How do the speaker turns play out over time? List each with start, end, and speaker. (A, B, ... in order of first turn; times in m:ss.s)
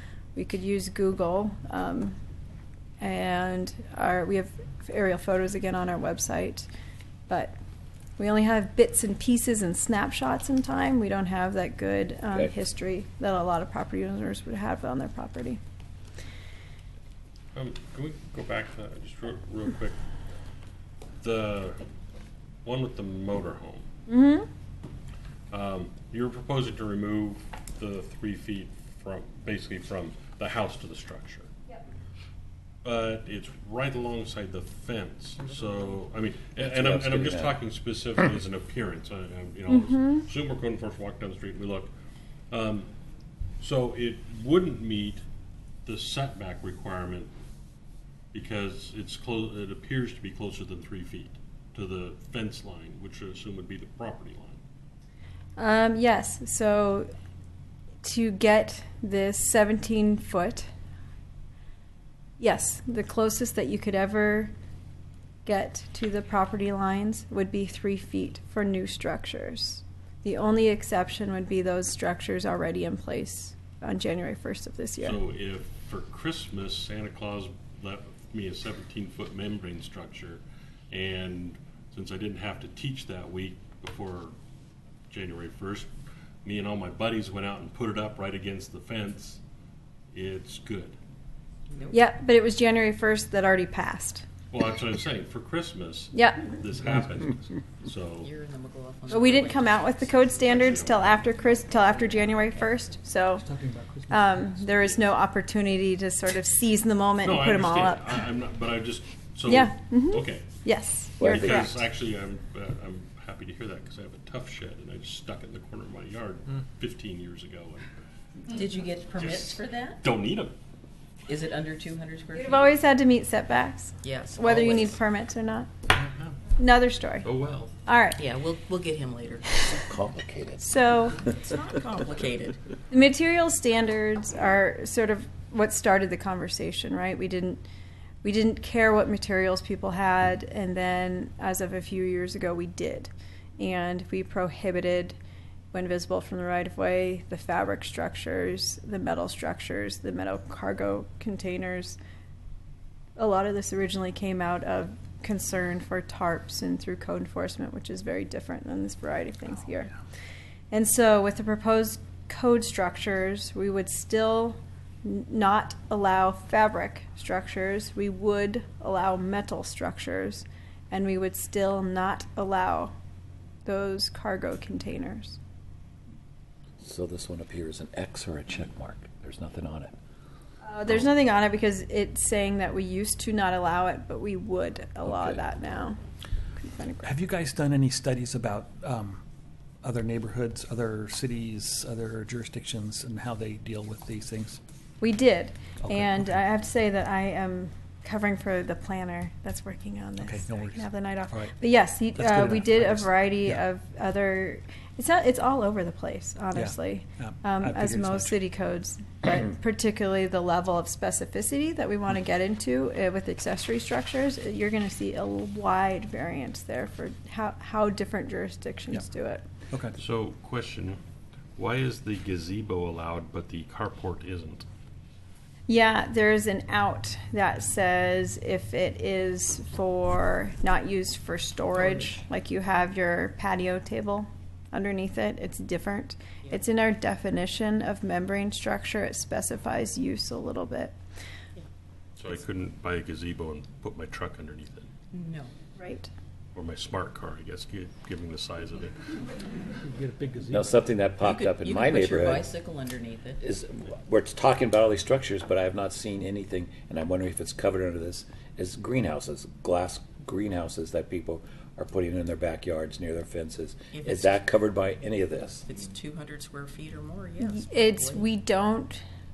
0:00.3-0:02.2 A
0:03.0-0:06.7 A
0:07.3-0:07.5 A
0:08.2-0:15.6 A
0:17.5-0:20.0 B
0:21.2-0:21.8 B
0:22.6-0:23.8 B
0:24.1-0:24.5 A
0:25.5-0:31.5 B
0:32.8-0:41.9 B
0:36.6-0:37.5 C
0:39.7-0:40.2 A
0:42.5-0:42.9 B
0:43.6-0:45.2 B
0:45.8-0:47.3 B
0:48.3-0:54.6 B
0:55.6-0:57.1 A
0:58.0-1:00.7 A
1:02.4-1:04.5 A
1:05.4-1:15.2 A
1:15.0-1:24.3 B
1:25.1-1:25.9 B
1:26.4-1:29.4 B
1:30.1-1:31.0 B
1:31.7-1:32.0 D
1:31.9-1:34.2 A
1:34.5-1:38.3 B
1:36.1-1:36.6 A
1:38.2-1:42.7 D
1:39.1-1:43.5 A
1:40.4-1:41.2 B
1:43.4-1:44.9 E
1:44.1-1:48.2 A
1:47.2-1:50.4 B
1:49.4-1:51.8 A
1:51.2-1:51.8 C
1:51.2-1:57.9 B
1:58.5-2:00.0 D
1:59.1-2:00.5 B
2:01.3-2:02.7 D
2:02.3-2:05.7 A
2:04.0-2:05.0 D
2:05.9-2:06.4 B
2:06.6-2:07.3 A
2:07.2-2:07.7 B
2:07.8-2:08.2 A
2:08.2-2:09.7 D
2:09.7-2:10.7 C
2:10.6-2:11.2 A
2:11.2-2:12.6 D
2:12.9-2:17.6 A
2:18.2-2:25.2 A
2:25.7-2:32.0 A
2:33.2-2:39.9 A
2:40.7-2:52.9 A
2:53.6-2:55.4 A
2:56.8-2:59.9 C
3:00.6-3:06.0 A
3:05.0-3:05.8 C
3:06.6-3:07.1 A
3:07.0-3:09.2 E
3:09.8-3:14.6 E
3:15.0-3:39.4 A
3:15.8-3:16.4 E
3:20.2-3:23.6 E
3:26.5-3:28.4 E
3:40.0-3:41.0 B
3:41.6-3:44.6 B
3:45.7-4:00.9 A
4:02.2-4:04.9 B
4:05.1-4:05.5 D
4:05.8-4:06.1 A
4:06.5-4:09.0 B
4:09.8-4:10.7 E
4:10.5-4:12.5 C
4:11.2-4:13.4 D
4:13.4-4:25.6 C
4:23.9-4:24.4 D
4:25.6-4:28.3 D
4:27.4-4:29.0 A